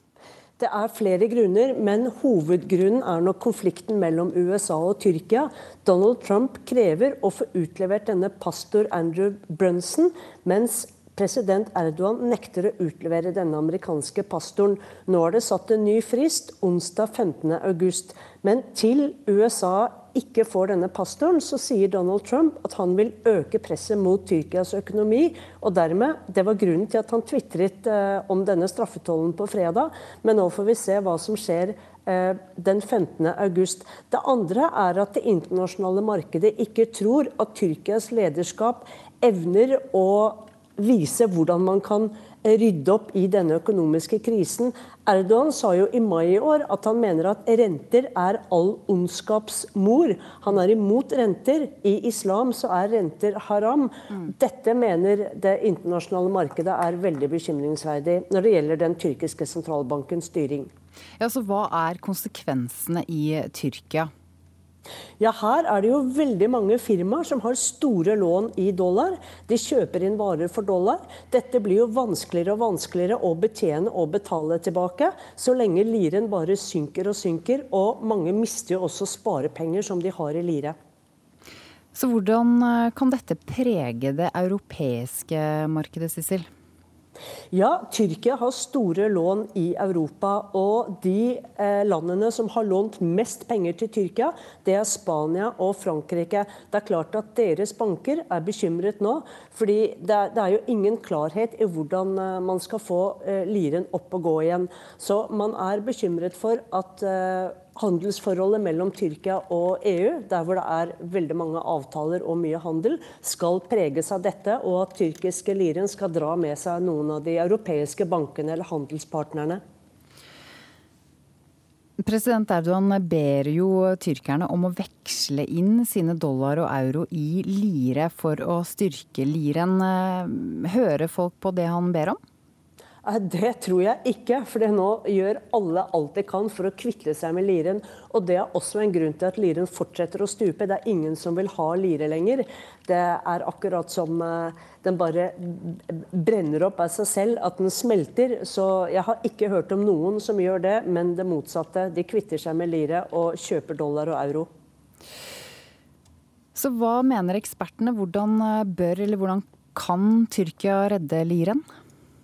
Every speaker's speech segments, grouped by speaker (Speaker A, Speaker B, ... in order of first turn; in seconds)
Speaker A: 0.6-60.7, 65.2-80.7, 87.5-119.6, 133.1-154.5
Speaker B: 61.2-64.1, 81.9-86.5, 122.0-132.2, 156.5-161.7